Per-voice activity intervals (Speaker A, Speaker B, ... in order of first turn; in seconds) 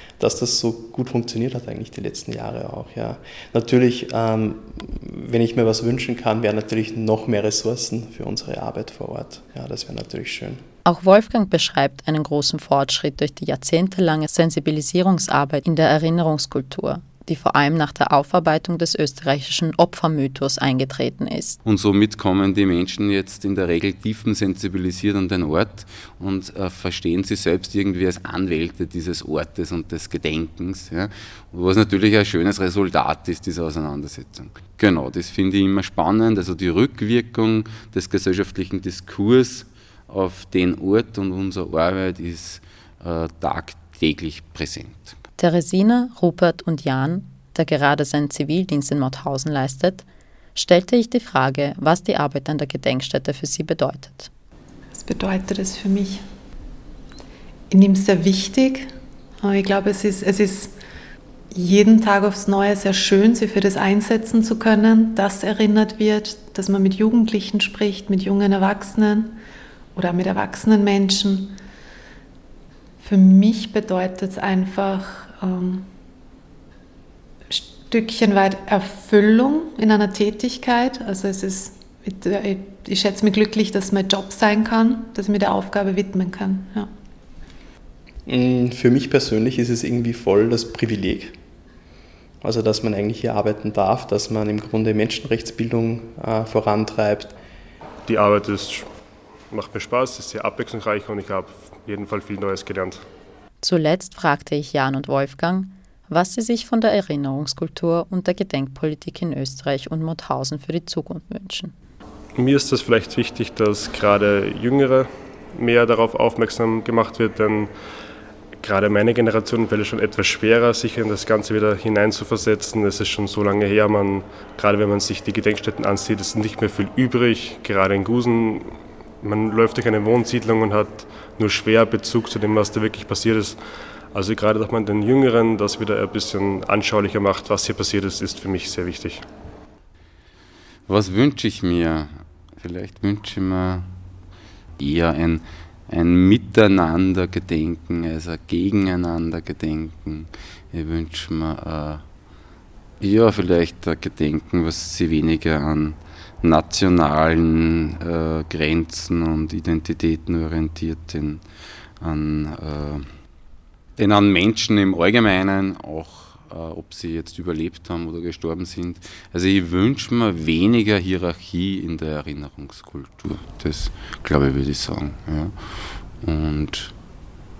Speaker A: 0.2-10.6, 88.3-91.4, 92.4-97.4
Speaker B: 10.8-21.6, 45.4-54.3, 103.6-111.7
Speaker C: 21.6-45.1, 140.9-143.9, 144.8-152.1, 153.0-161.5, 162.0-163.1, 164.0-176.9
Speaker D: 54.9-56.2, 57.7-60.7, 61.5-69.4, 70.0-71.5, 73.0-75.9, 77.5-86.9
Speaker E: 98.0-98.9, 99.5-103.0, 112.4-117.7, 118.6-133.6, 134.1-139.2